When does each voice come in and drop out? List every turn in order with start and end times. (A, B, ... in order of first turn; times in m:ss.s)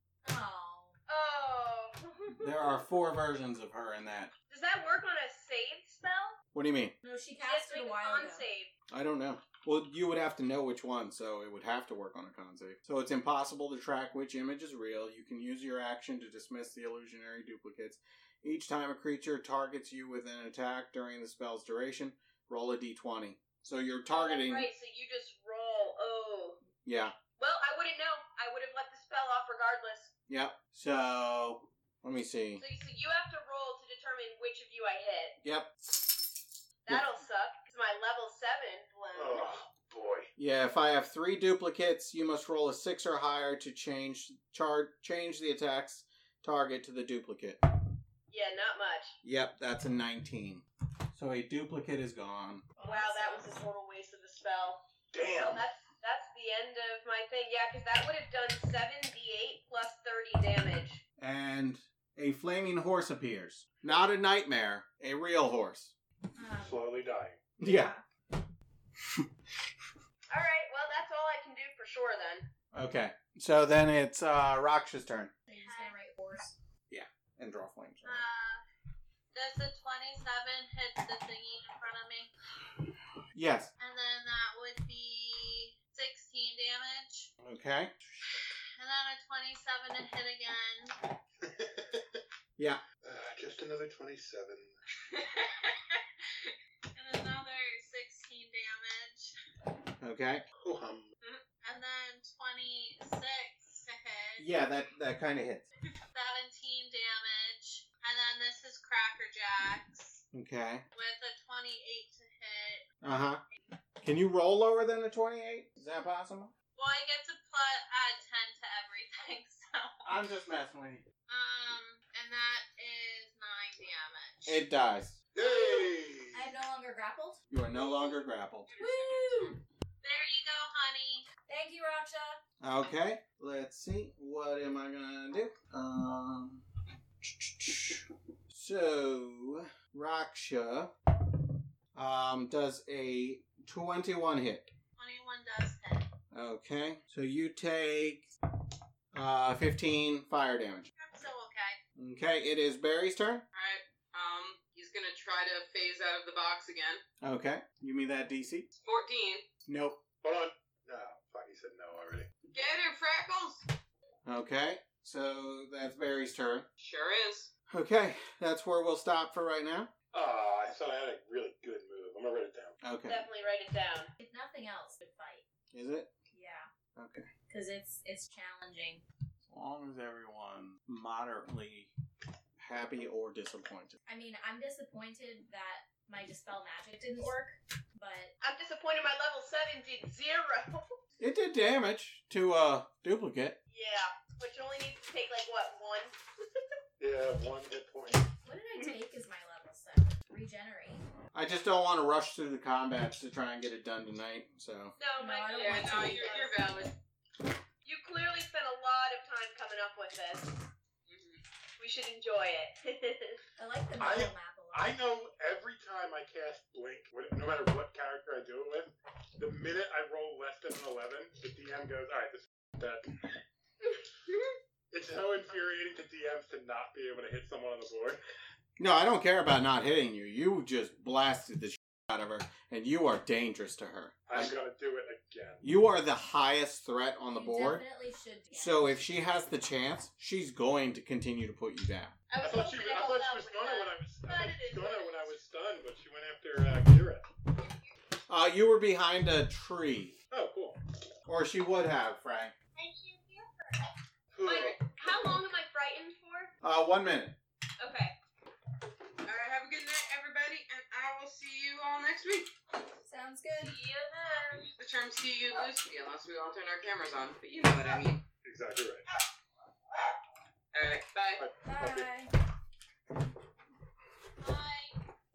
0:00.2-0:01.0 A
0:01.1-0:02.9 B
0:02.4-0:04.3 C
0:04.5-0:06.4 B
0:06.5-0:06.9 C
0:07.0-0:08.4 A
0:07.4-0:08.7 B
0:08.9-0:24.7 C
0:24.1-0:26.6 B
0:26.8-0:27.1 C
0:27.4-0:30.1 B
0:30.3-0:32.6 C
0:32.6-0:35.4 B
0:35.4-0:37.1 C
0:36.8-0:39.5 B
0:39.1-0:40.3 D
0:40.4-0:47.6 C
0:48.3-0:49.1 B
0:49.2-0:52.7 C
0:52.8-0:53.6 A
0:52.8-1:01.0 B
0:55.1-0:55.7 D
1:01.2-1:05.9 C
1:06.4-1:06.9 A
1:06.6-1:07.4 D
1:07.6-1:07.9 C
1:07.6-1:08.0 A
1:09.0-1:09.2 C
1:10.3-1:12.5 B
1:12.7-1:15.3 C
1:15.5-1:16.5 A
1:15.7-1:15.9 E
1:16.9-1:18.3 C
1:18.0-1:18.6 E
1:19.3-1:22.3 E
1:23.3-1:23.7 C
1:23.8-1:27.3 E
1:27.4-1:28.1 C
1:28.8-1:30.9 E
1:31.4-1:32.2 D
1:33.0-1:34.7 D
1:35.0-1:39.3 E
1:40.0-1:40.4 C
1:40.6-1:41.1 D
1:41.2-1:44.5 E
1:44.4-1:45.6 C
1:46.1-1:50.2 E
1:50.3-1:50.8 C
1:50.9-1:52.8 E
1:53.0-1:53.4 C
1:54.0-1:56.5 C
1:56.8-2:00.0 E
2:00.0-2:01.0 C
2:01.3-2:04.6 E
2:04.4-2:05.2 C
2:05.3-2:06.4 D
2:05.4-2:05.9 E
2:06.3-2:07.4 A
2:07.5-2:08.7 C
2:08.7-2:11.3 E
2:08.8-2:09.6 A
2:11.5-2:12.4 A
2:12.6-2:16.6 C
2:17.2-2:20.9 C
2:21.9-2:24.7 C
2:25.0-2:26.1 E
2:26.3-2:28.3 C
2:29.1-2:30.9 C
2:31.0-2:31.8 E
2:32.0-2:33.4 C
2:33.5-2:37.0 F
2:37.2-2:38.7 C
2:38.8-2:39.4 F
2:39.6-2:40.0 C
2:40.2-2:42.3 D
2:42.5-2:43.6 F
2:44.2-2:46.7 C
2:46.8-2:47.5 F
2:47.7-2:49.9 C
2:50.1-2:52.8 D
2:52.8-2:53.2 C
2:53.0-2:54.1 B
2:54.2-2:55.4 A
2:55.7-2:56.1 C
2:56.3-2:56.7 A
2:56.9-2:57.3 C
2:57.5-2:59.0 A
2:59.5-3:01.9 C
3:02.6-3:04.0 C
3:04.1-3:08.3 A
3:08.4-3:10.8 B
3:11.2-3:13.6 C
3:13.7-3:16.2 B
3:17.0-3:18.3 D
3:18.4-3:21.0 A
3:21.3-3:25.0 C
3:25.0-3:26.7 B
3:25.2-3:26.5 A
3:25.5-3:26.9 F
3:27.8-3:30.5 B
3:31.1-3:31.4 F
3:31.8-3:33.4 B
3:33.6-3:34.9 A
3:34.0-3:43.3 D
3:44.9-3:48.2 D
3:48.8-3:54.5 C
3:54.3-3:55.6 D
3:55.6-3:57.8 C
3:57.3-3:59.0 A
3:58.5-4:02.2 C
4:02.3-4:05.3 B
4:02.4-4:07.3 D
4:08.3-4:10.2 C
4:10.3-4:10.8 D
4:11.2-4:12.5 C
4:12.8-4:13.6 B
4:14.3-4:14.9 D
4:14.4-4:16.5 B
4:16.6-4:17.4 C
4:17.8-4:18.1 B
4:19.2-4:22.5 F
4:23.0-4:23.8 A
4:23.6-4:24.7 B
4:24.7-4:28.2 F
4:28.4-4:29.0 D
4:30.7-4:31.4 F
4:31.4-4:32.1 D
4:31.6-4:32.3 A
4:34.4-4:35.0 E